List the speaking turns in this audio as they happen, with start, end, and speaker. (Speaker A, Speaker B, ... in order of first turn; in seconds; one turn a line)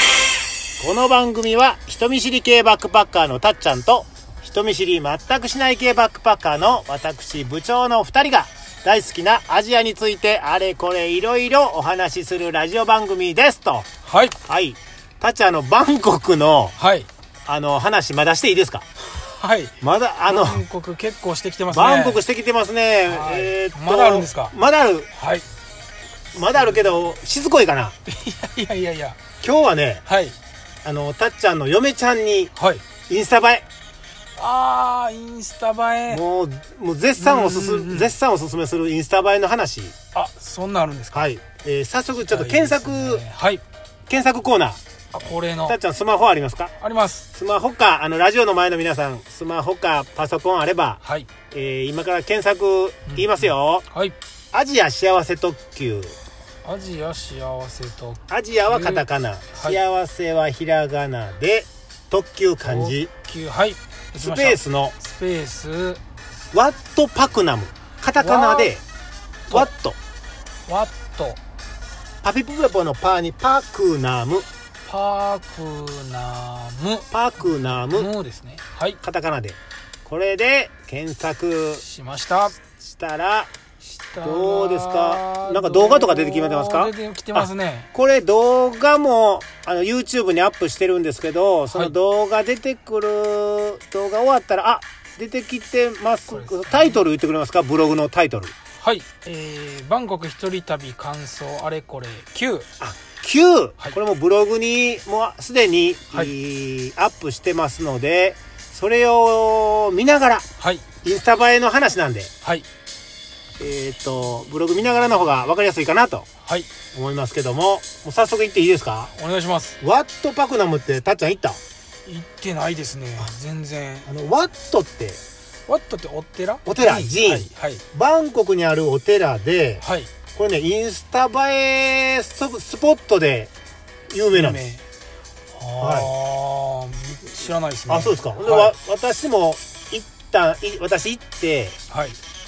Speaker A: 0.8-13.9
Speaker B: 14.0-14.4
Speaker A: 14.4-16.7
Speaker B: 16.8-17.1
Speaker A: 17.4-18.9
Speaker B: 19.0-22.2
Speaker A: 19.8-20.6
Speaker A: 21.7-25.1
Speaker B: 23.1-24.5
Speaker B: 25.1-25.4
Speaker A: 26.3-27.9
Speaker B: 26.6-26.9
Speaker B: 28.1-29.2
Speaker A: 29.4-30.0
Speaker B: 30.0-30.4
Speaker A: 30.8-32.5
Speaker B: 32.5-32.8
Speaker A: 33.1-33.6
Speaker B: 34.4-36.2
Speaker A: 36.1-39.9
Speaker B: 37.2-38.1
Speaker B: 40.1-41.3
Speaker A: 41.1-43.2
Speaker B: 42.3-43.6
Speaker A: 44.1-44.8
Speaker B: 45.1-45.8
Speaker A: 45.7-46.7
Speaker B: 46.8-47.3
Speaker A: 47.3-53.9
Speaker B: 51.0-51.3
Speaker B: 53.1-54.1
Speaker A: 54.5-56.1
Speaker B: 56.6-59.8
Speaker A: 58.3-63.1
Speaker B: 62.6-66.0
Speaker A: 64.2-65.0
Speaker A: 66.5-68.8
Speaker B: 68.2-68.7
Speaker A: 69.5-70.0
Speaker B: 70.7-71.4
Speaker A: 72.2-74.5
Speaker B: 74.8-79.0
Speaker A: 77.1-78.1
Speaker A: 79.0-81.8
Speaker B: 81.8-82.6
Speaker A: 82.8-83.5
Speaker B: 83.8-87.9
Speaker A: 84.2-98.5
Speaker B: 96.3-97.0
Speaker B: 98.8-102.7
Speaker A: 102.8-110.5
Speaker B: 110.6-110.8
Speaker A: 111.0-112.3
Speaker A: 113.6-116.2
Speaker B: 116.4-116.7
Speaker A: 116.9-119.1
Speaker B: 119.1-119.8
Speaker A: 119.8-121.6
Speaker B: 122.0-124.1
Speaker A: 124.0-125.2
Speaker B: 125.7-127.8
Speaker A: 126.7-129.8
Speaker B: 129.8-130.1
Speaker A: 130.3-133.5
Speaker A: 134.1-134.6
Speaker B: 134.3-134.8
Speaker B: 135.5-138.7
Speaker A: 135.8-136.1
Speaker A: 137.9-141.8
Speaker B: 141.9-142.2